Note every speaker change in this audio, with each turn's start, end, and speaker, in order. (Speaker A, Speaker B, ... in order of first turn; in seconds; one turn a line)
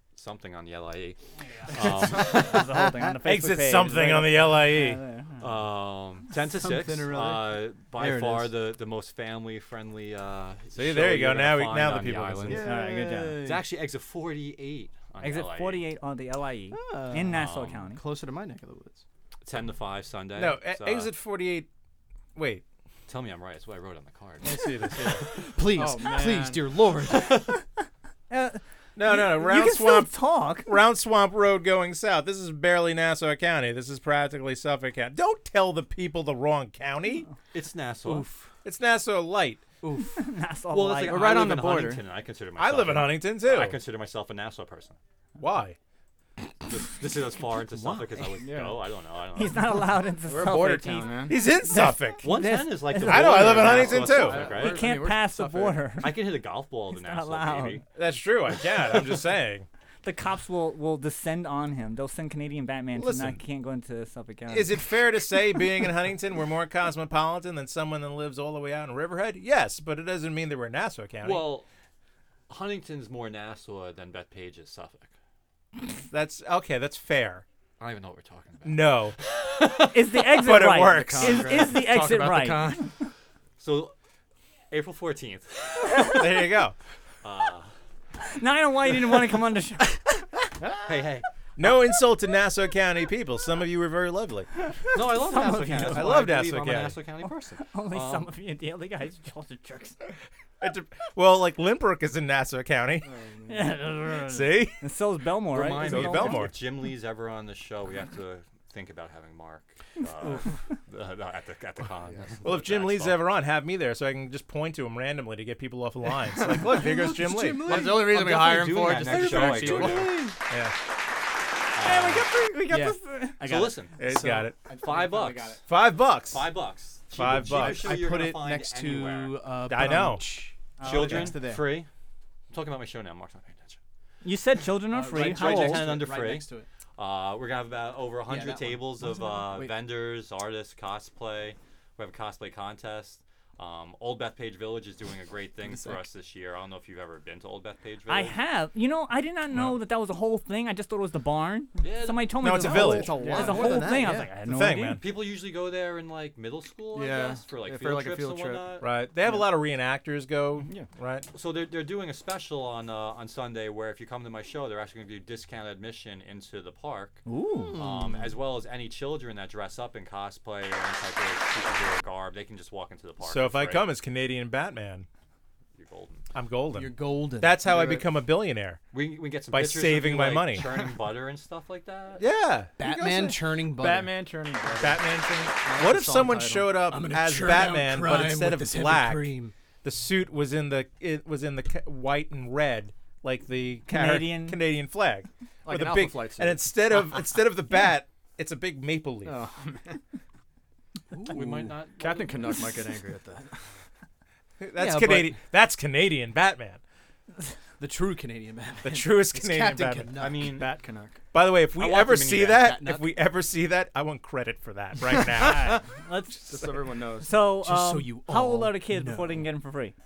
Speaker A: 0.1-2.6
Speaker B: 1.8-5.5
Speaker C: 3.2-5.0
Speaker A: 5.4-12.6
Speaker D: 6.5-8.5
Speaker C: 10.8-12.6
Speaker D: 12.5-13.7
Speaker B: 12.6-13.4
Speaker A: 13.4-15.8
Speaker B: 15.2-18.0
Speaker D: 16.7-19.0
Speaker A: 17.3-17.8
Speaker A: 19.4-21.1
Speaker C: 20.4-21.7
Speaker C: 22.4-22.6
Speaker A: 23.1-24.6
Speaker C: 24.4-25.3
Speaker D: 25.4-27.6
Speaker E: 25.7-26.7
Speaker B: 28.3-30.7
Speaker C: 29.0-37.3
Speaker A: 37.5-38.3
Speaker C: 38.6-39.6
Speaker D: 39.8-40.1
Speaker B: 40.2-41.2
Speaker A: 40.7-45.0
Speaker E: 41.0-42.0
Speaker C: 42.6-43.8
Speaker C: 45.4-45.8
Speaker A: 46.7-49.8
Speaker E: 48.4-48.8
Speaker B: 49.4-53.6
Speaker E: 50.2-51.4
Speaker C: 51.3-52.3
Speaker A: 52.2-54.9
Speaker C: 53.0-54.5
Speaker E: 53.5-55.9
Speaker B: 54.5-56.2
Speaker A: 56.0-57.9
Speaker B: 57.0-57.8
Speaker C: 58.0-59.7
Speaker B: 60.0-64.8
Speaker C: 63.0-63.4
Speaker C: 64.5-71.5
Speaker A: 71.2-71.7
Speaker A: 72.5-75.1
Speaker C: 76.1-77.4
Speaker A: 77.8-79.8
Speaker C: 78.7-79.2
Speaker B: 79.9-82.8
Speaker C: 80.2-81.5
Speaker E: 80.9-82.9
Speaker A: 83.6-83.9
Speaker A: 84.7-86.2
Speaker C: 86.1-86.8
Speaker A: 87.2-87.7
Speaker B: 88.2-90.2
Speaker A: 90.8-91.3
Speaker C: 91.6-94.5
Speaker B: 94.9-96.2
Speaker A: 94.9-98.3
Speaker C: 95.8-97.0
Speaker B: 97.6-100.0
Speaker C: 100.6-103.1
Speaker E: 103.0-103.8
Speaker B: 103.5-106.5
Speaker C: 104.2-104.8
Speaker A: 105.5-113.3
Speaker C: 105.8-106.5
Speaker C: 112.4-117.8
Speaker D: 116.6-120.4
Speaker E: 117.5-120.3
Speaker A: 117.7-120.2
Speaker C: 120.5-120.8
Speaker A: 121.8-122.3
Speaker B: 121.8-123.4
Speaker E: 122.7-123.8
Speaker A: 123.4-124.0
Speaker C: 124.0-124.5
Speaker D: 124.1-125.5
Speaker E: 124.8-125.6
Speaker A: 124.8-125.6
Speaker C: 125.7-126.5
Speaker A: 126.3-129.4
Speaker C: 127.1-128.0
Speaker D: 127.3-131.8
Speaker C: 129.7-130.4
Speaker B: 130.8-131.3
Speaker A: 130.8-131.9
Speaker A: 132.5-133.8
Speaker B: 134.2-135.9
Speaker D: 134.9-136.7
Speaker A: 135.1-148.4
Speaker D: 138.3-139.7
Speaker D: 145.6-146.0
Speaker B: 148.1-155.0
Speaker A: 151.8-152.4
Speaker C: 152.4-153.2
Speaker D: 152.5-154.3
Speaker E: 153.2-153.9
Speaker C: 154.5-155.0
Speaker A: 155.0-158.9
Speaker E: 156.9-159.4
Speaker C: 158.8-161.3
Speaker E: 160.6-160.9
Speaker A: 161.3-167.2
Speaker B: 167.3-167.8
Speaker D: 167.6-168.3
Speaker A: 167.8-173.9
Speaker C: 173.2-175.1
Speaker A: 175.8-176.2
Speaker C: 176.3-178.8
Speaker D: 176.7-178.0
Speaker A: 178.9-182.2
Speaker C: 179.5-180.7
Speaker C: 182.2-183.4
Speaker D: 182.8-184.2
Speaker E: 183.8-186.8
Speaker C: 184.8-199.4
Speaker D: 186.8-189.5
Speaker B: 193.9-194.6
Speaker E: 195.7-196.7
Speaker E: 199.2-200.0
Speaker D: 201.1-201.7
Speaker A: 201.3-202.6
Speaker E: 202.0-203.8
Speaker C: 204.6-206.8
Speaker D: 204.8-205.4
Speaker D: 207.8-210.6
Speaker C: 208.8-210.1
Speaker A: 210.2-210.7
Speaker E: 210.4-211.2
Speaker C: 211.3-215.8
Speaker A: 211.8-212.8
Speaker D: 212.6-213.1
Speaker E: 215.1-215.8
Speaker B: 215.4-216.6
Speaker E: 216.4-217.3
Speaker B: 217.2-219.9
Speaker D: 217.5-219.5